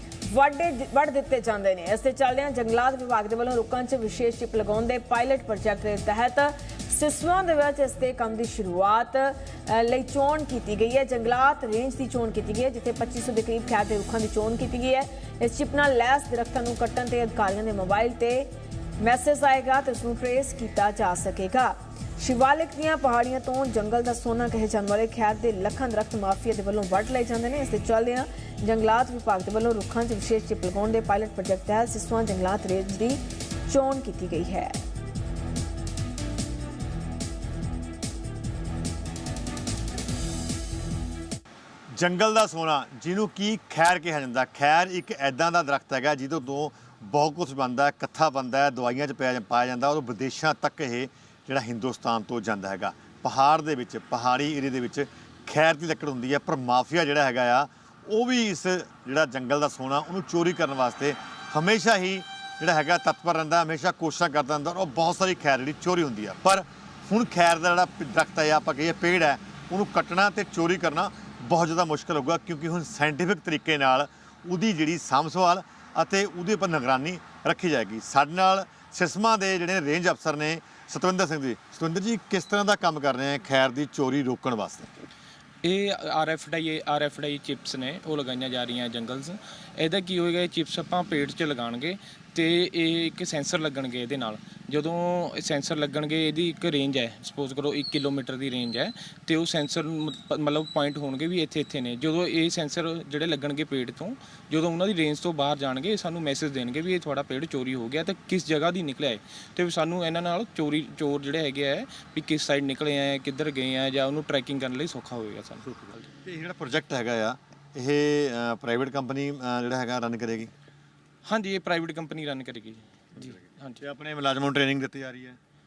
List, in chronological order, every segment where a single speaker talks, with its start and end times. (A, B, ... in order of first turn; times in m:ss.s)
0:00.3-0:34.8 A
0:41.9-1:24.9 B
1:25.6-1:55.6 C
1:55.8-2:00.5 B
2:01.2-2:03.8 C
2:03.2-2:05.4 B